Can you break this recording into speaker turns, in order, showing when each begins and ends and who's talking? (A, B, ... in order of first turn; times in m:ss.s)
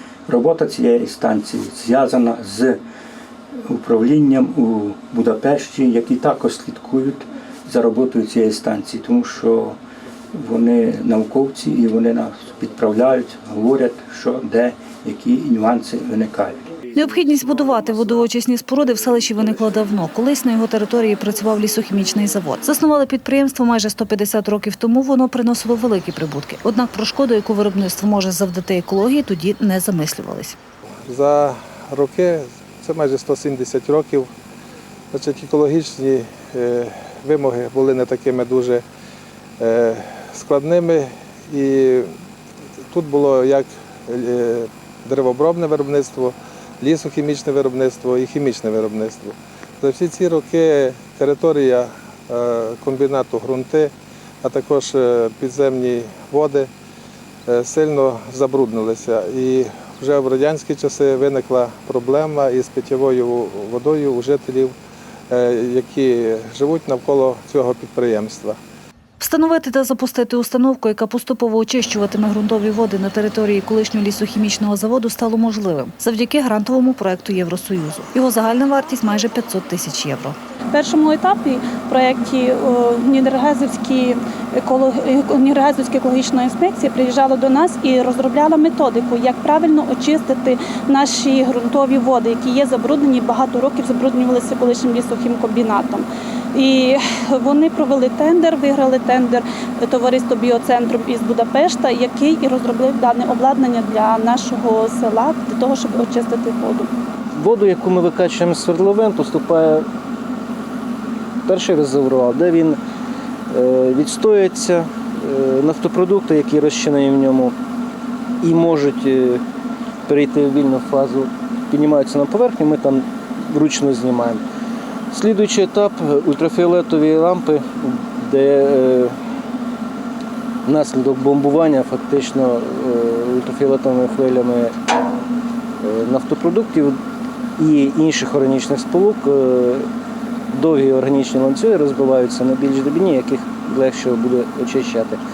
0:00.3-0:02.8 A
0:03.6-0:09.8 A
0:10.3-0:16.6 A
0:16.9-0:30.6 B
0:31.1-0:34.3 C
0:35.1-0:38.8 C
0:39.6-0:42.1 C
0:42.9-0:56.7 C
0:57.5-1:04.8 C
1:05.3-1:08.6 C
1:09.2-1:20.4 B
1:20.7-1:46.9 D
1:47.3-1:49.8 E
1:51.4-1:52.8 E
1:53.5-1:57.5 E
1:58.4-1:59.4 E
2:00.1-2:04.4 E
2:05.1-2:09.2 E
2:10.6-2:14.8 E
2:15.8-2:17.0 E
2:17.6-2:19.8 E
2:20.5-2:25.2 E